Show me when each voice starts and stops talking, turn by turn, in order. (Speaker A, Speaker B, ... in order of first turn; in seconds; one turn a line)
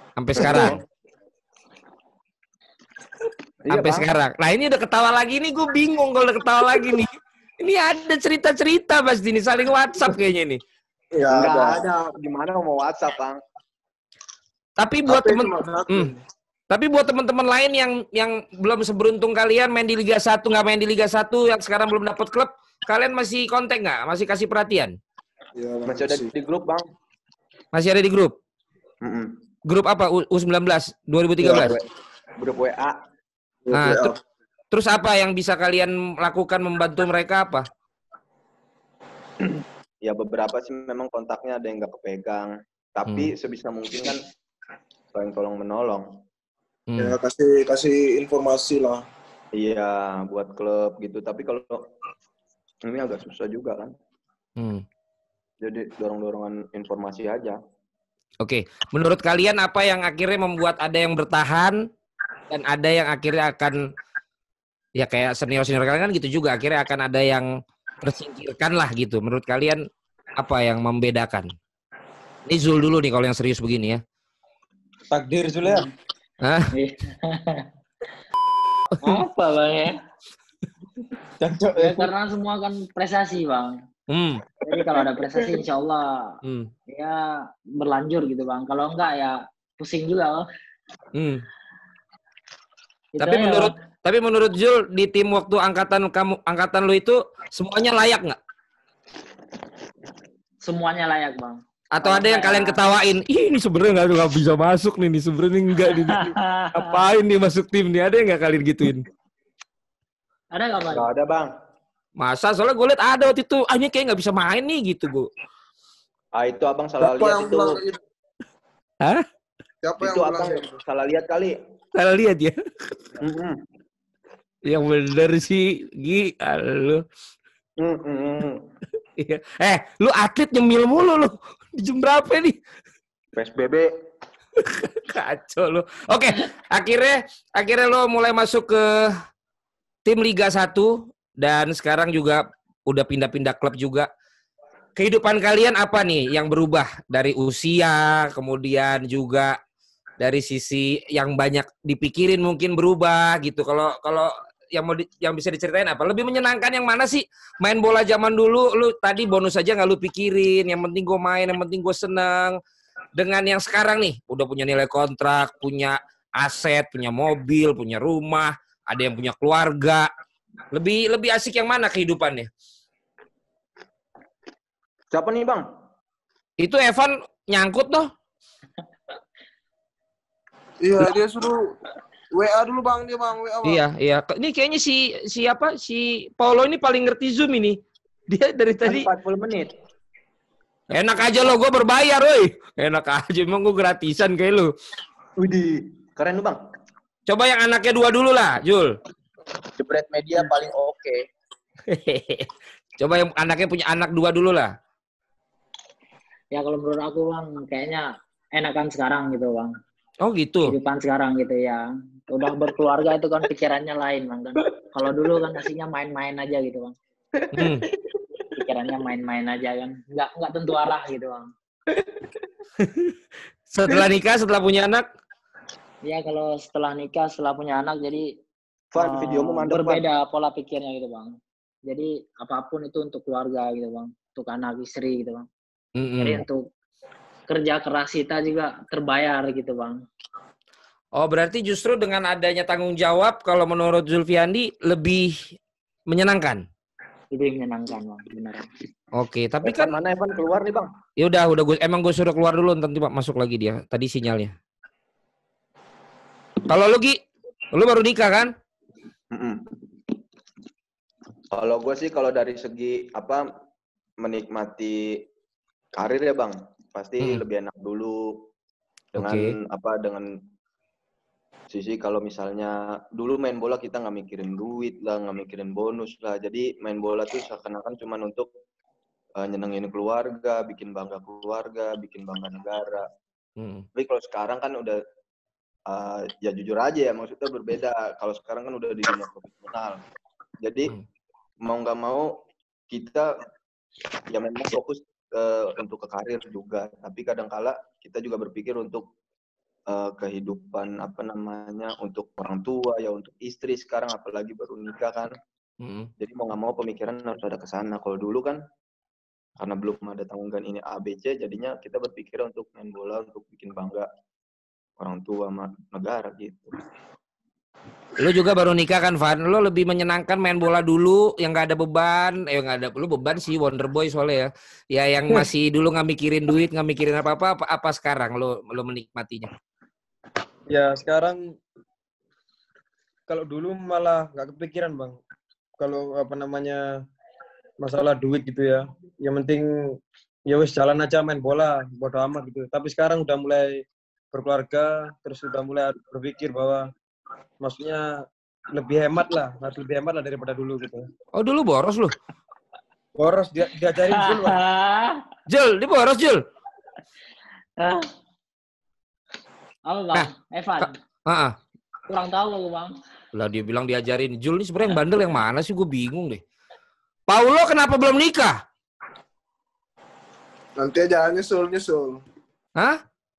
Speaker A: 0.2-0.8
Speaker B: 0.3-0.8
Speaker C: 0.4-0.7
Speaker B: 3.6-4.0
Speaker A: 3.7-10.6
Speaker C: 11.1-11.8
Speaker B: 11.3-13.4
Speaker A: 14.8-16.1
Speaker C: 15.1-16.2
Speaker A: 16.7-24.9
Speaker C: 25.6-26.3
Speaker B: 25.9-26.8
Speaker A: 27.7-28.3
Speaker B: 29.0-29.3
Speaker A: 29.7-31.8
Speaker C: 31.4-31.7
Speaker B: 31.5-31.8
Speaker B: 32.4-33.0
Speaker C: 33.6-34.1
Speaker A: 33.7-34.1
Speaker A: 34.7-37.7
Speaker B: 39.4-44.2
Speaker B: 45.1-46.1
Speaker A: 46.9-47.1
Speaker C: 47.0-49.0
Speaker B: 49.5-51.9
Speaker B: 52.8-53.9
Speaker A: 54.6-54.8
Speaker B: 55.6-57.6
Speaker A: 58.4-61.8
Speaker A: 62.5-63.8
Speaker A: 65.0-67.5
Speaker A: 68.0-69.8
Speaker A: 70.4-71.5
Speaker A: 72.5-74.0
Speaker D: 75.1-75.9
Speaker A: 76.4-76.7
Speaker E: 76.7-77.7
Speaker A: 78.9-79.2
Speaker E: 79.0-79.9
Speaker D: 81.4-82.1
Speaker E: 81.7-83.8
Speaker A: 84.1-84.4
Speaker E: 84.7-86.3
Speaker A: 86.4-86.7
Speaker E: 86.9-87.2
Speaker E: 87.8-90.4
Speaker A: 91.1-91.4
Speaker E: 93.2-93.7
Speaker A: 93.2-98.4
Speaker E: 100.6-102.8
Speaker A: 101.9-109.1
Speaker E: 105.8-107.0
Speaker E: 110.5-111.1
Speaker B: 110.9-111.5
Speaker A: 112.2-115.3
Speaker B: 116.3-117.8
Speaker C: 117.0-118.0
Speaker C: 119.8-120.8
Speaker B: 120.0-121.5
Speaker A: 122.0-123.1
Speaker B: 123.2-123.6
Speaker A: 124.7-127.0
Speaker B: 127.8-128.6
Speaker A: 129.2-132.6
Speaker B: 133.3-133.9
Speaker A: 134.6-139.2
Speaker A: 140.0-144.1
Speaker A: 145.0-149.5
Speaker A: 150.2-162.6
Speaker A: 163.2-170.1
Speaker A: 170.7-172.5
Speaker B: 175.1-175.7
Speaker A: 176.6-178.1
Speaker C: 180.8-181.7
Speaker C: 182.3-183.8
Speaker A: 183.6-187.8
Speaker A: 188.3-189.1
Speaker B: 188.8-189.7
Speaker A: 190.9-194.7
Speaker B: 195.4-196.6
Speaker A: 197.3-198.9
Speaker B: 199.8-201.2
Speaker A: 201.9-204.7
Speaker E: 206.5-209.7
Speaker A: 210.2-210.7
Speaker E: 210.7-216.9
Speaker B: 217.3-218.5
Speaker A: 217.5-217.8
Speaker E: 218.5-221.5
Speaker B: 221.9-222.3
Speaker A: 222.8-223.1
Speaker A: 223.7-225.0
Speaker E: 226.0-228.2
Speaker B: 228.9-230.0
Speaker E: 229.0-231.4
Speaker E: 231.9-235.4
Speaker A: 236.0-236.4
Speaker E: 236.2-236.6
Speaker E: 237.5-240.0
Speaker A: 241.2-245.5
Speaker A: 246.1-246.6
Speaker E: 247.3-248.7
Speaker A: 249.2-249.9
Speaker B: 249.6-250.9
Speaker A: 251.2-254.5
Speaker A: 256.7-257.2
Speaker A: 257.7-258.5
Speaker B: 259.3-259.7
Speaker B: 261.5-263.4
Speaker B: 264.2-265.2
Speaker B: 266.0-268.5
Speaker B: 269.1-270.4
Speaker A: 269.2-269.5
Speaker B: 271.7-278.5
Speaker B: 279.4-283.0
Speaker A: 283.6-283.9
Speaker B: 283.9-285.0
Speaker B: 285.9-290.0
Speaker B: 290.6-290.9
Speaker B: 291.6-292.3
Speaker B: 292.9-293.3
Speaker B: 294.3-299.1
Speaker B: 299.9-305.3
Speaker A: 305.8-306.1
Speaker B: 306.2-308.6
Speaker B: 309.6-314.1
Speaker B: 315.0-316.7
Speaker A: 318.2-329.5
Speaker D: 330.7-331.6
Speaker D: 333.3-335.2
Speaker D: 335.8-336.8
Speaker D: 337.8-340.0
Speaker D: 340.5-346.9
Speaker D: 347.6-351.1
Speaker A: 351.4-352.1
Speaker D: 353.2-354.6
Speaker E: 354.1-355.2
Speaker A: 355.5-356.4
Speaker E: 357.8-358.1
Speaker E: 359.9-360.9
Speaker A: 360.8-361.5
Speaker E: 362.1-362.9
Speaker A: 363.3-366.4
Speaker A: 367.3-368.6
Speaker C: 370.8-372.2